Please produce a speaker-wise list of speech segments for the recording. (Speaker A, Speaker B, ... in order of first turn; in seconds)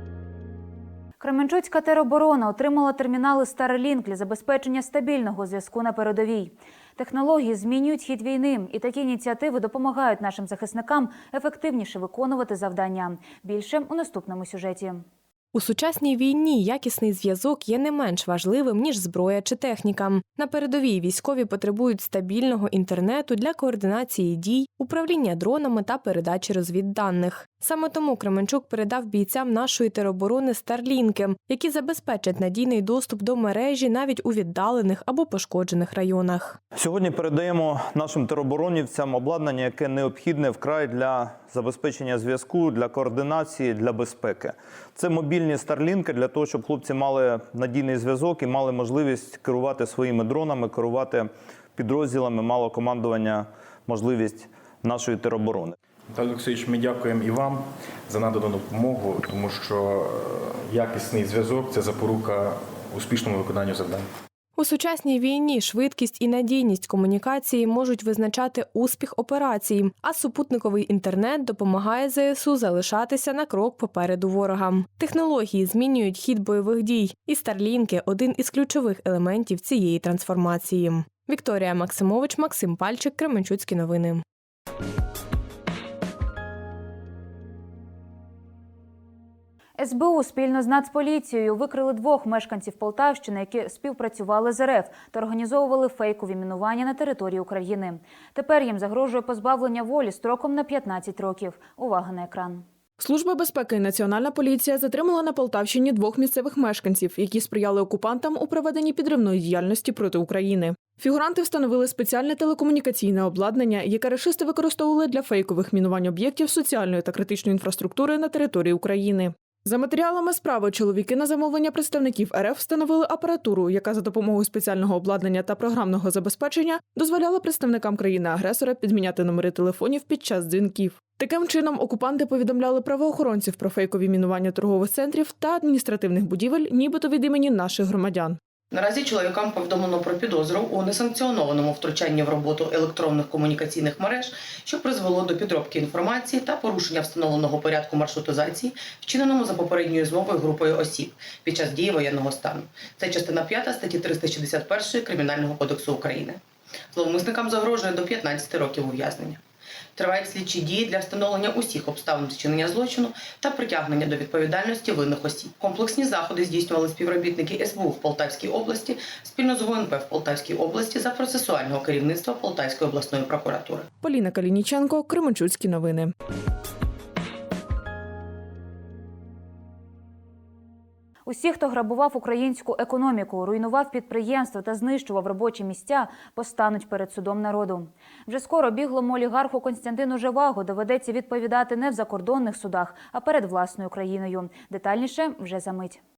Speaker A: 1.2-15.0, 89.8-102.6, 181.2-196.0
Speaker B: 15.5-36.6, 64.6-84.2
Speaker C: 36.8-55.7
Speaker D: 56.1-64.0
Speaker E: 103.0-138.4, 174.0-176.1
Speaker F: 138.7-156.4, 156.9-159.4, 159.9-173.9